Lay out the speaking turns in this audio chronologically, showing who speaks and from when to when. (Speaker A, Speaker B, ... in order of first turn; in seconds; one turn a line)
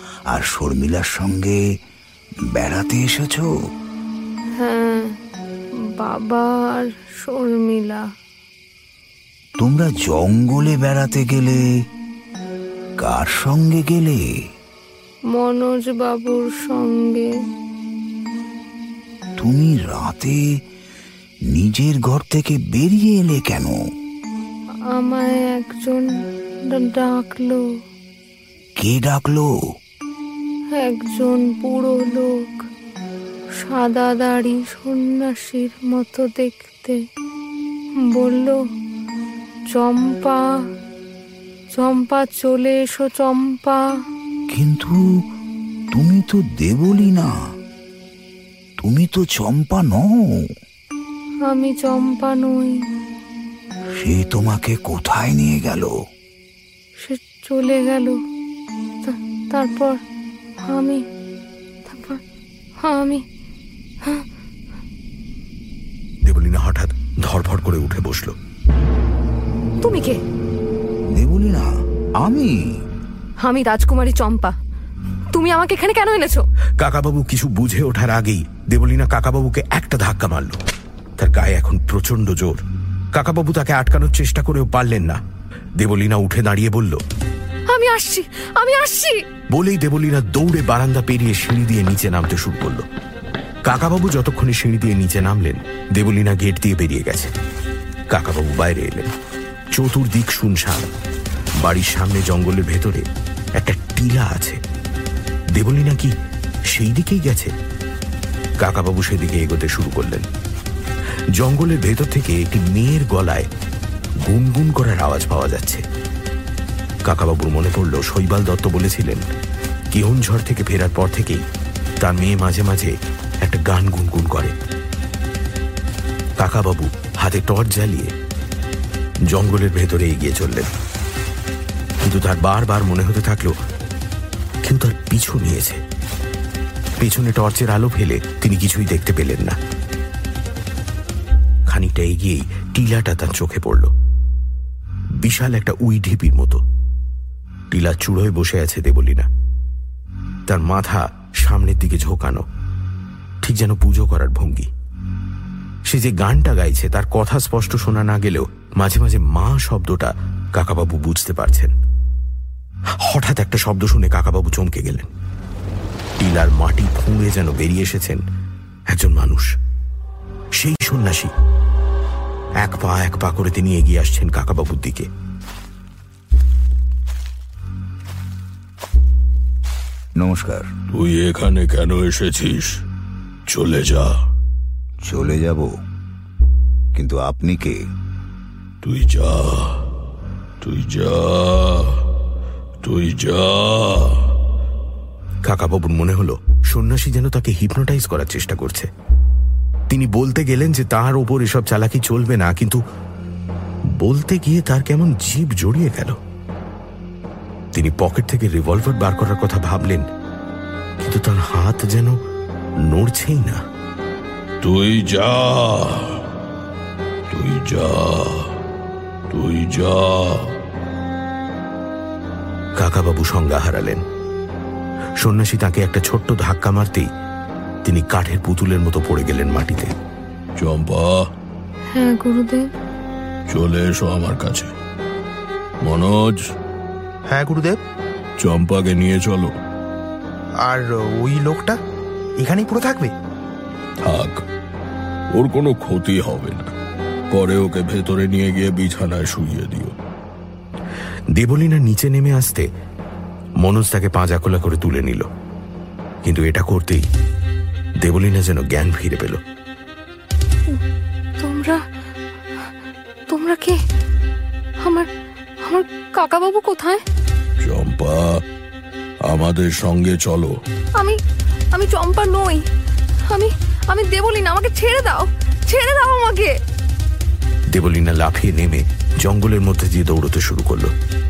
Speaker A: 0.3-1.6
Speaker A: 2.5-3.5
Speaker B: 4.6-5.1
Speaker B: 6.0-8.0
Speaker A: 9.6-11.6
Speaker A: 13.0-14.2
Speaker B: 15.3-17.3
Speaker A: 19.4-20.4
Speaker A: 21.5-23.8
Speaker B: 24.9-26.1
Speaker B: 26.7-27.6
Speaker A: 28.8-29.5
Speaker B: 30.7-32.5
Speaker B: 33.6-37.0
Speaker B: 38.0-38.6
Speaker B: 39.7-40.4
Speaker B: 41.7-43.8
Speaker A: 44.5-45.0
Speaker A: 45.9-47.3
Speaker A: 48.8-50.1
Speaker B: 51.5-52.8
Speaker A: 53.9-55.9
Speaker B: 57.0-58.2
Speaker B: 59.0-60.0
Speaker B: 60.6-61.0
Speaker B: 61.9-62.2
Speaker B: 62.8-63.2
Speaker C: 66.2-68.3
Speaker B: 69.8-70.2
Speaker A: 71.1-72.5
Speaker B: 73.4-74.5
Speaker B: 75.3-76.4
Speaker C: 76.8-80.6
Speaker C: 81.2-82.6
Speaker C: 83.1-85.2
Speaker C: 85.8-87.0
Speaker B: 87.7-89.2
Speaker C: 89.5-92.8
Speaker C: 93.7-97.3
Speaker C: 98.1-99.1
Speaker C: 99.8-100.9
Speaker C: 101.6-103.0
Speaker C: 103.6-104.6
Speaker C: 105.5-106.1
Speaker C: 106.7-107.5
Speaker C: 108.6-110.2
Speaker C: 111.4-113.5
Speaker C: 114.2-115.8
Speaker C: 117.0-119.2
Speaker C: 119.9-121.4
Speaker C: 122.0-124.5
Speaker C: 126.4-128.1
Speaker C: 129.3-130.7
Speaker C: 132.0-133.6
Speaker C: 134.6-135.8
Speaker C: 137.0-139.6
Speaker C: 141.7-143.9
Speaker C: 145.2-146.6
Speaker C: 147.7-149.3
Speaker C: 150.5-152.4
Speaker C: 153.4-154.7
Speaker C: 155.9-161.7
Speaker C: 163.0-165.1
Speaker C: 166.2-168.2
Speaker C: 168.9-169.5
Speaker C: 170.6-171.3
Speaker C: 172.6-175.1
Speaker A: 180.2-180.7
Speaker D: 180.9-182.8
Speaker D: 183.5-184.2
Speaker A: 185.0-185.8
Speaker A: 186.9-187.8
Speaker D: 188.8-189.8
Speaker D: 190.6-192.0
Speaker D: 192.8-194.3
Speaker C: 195.4-198.9
Speaker C: 199.9-202.8
Speaker C: 204.0-206.2
Speaker C: 207.7-210.1
Speaker C: 211.0-212.2
Speaker C: 212.8-213.6
Speaker D: 214.6-216.2
Speaker D: 217.3-218.5
Speaker D: 219.3-220.5
Speaker C: 222.8-224.0
Speaker C: 225.2-227.1
Speaker C: 227.8-229.9
Speaker D: 230.6-231.2
Speaker B: 231.9-232.7
Speaker D: 233.5-234.7
Speaker D: 235.8-236.4
Speaker E: 237.3-237.8
Speaker D: 238.4-239.5
Speaker E: 240.6-241.8
Speaker E: 242.4-243.1
Speaker D: 244.0-244.4
Speaker D: 245.3-246.7
Speaker D: 247.3-249.9
Speaker C: 251.3-252.7
Speaker C: 253.6-255.3
Speaker C: 256.2-257.1
Speaker C: 258.0-259.4
Speaker B: 261.4-261.8
Speaker B: 263.3-263.8
Speaker B: 264.8-265.1
Speaker B: 265.6-267.0
Speaker D: 267.6-268.4
Speaker D: 269.3-270.5
Speaker B: 271.7-272.6
Speaker B: 273.3-276.5
Speaker C: 277.7-280.9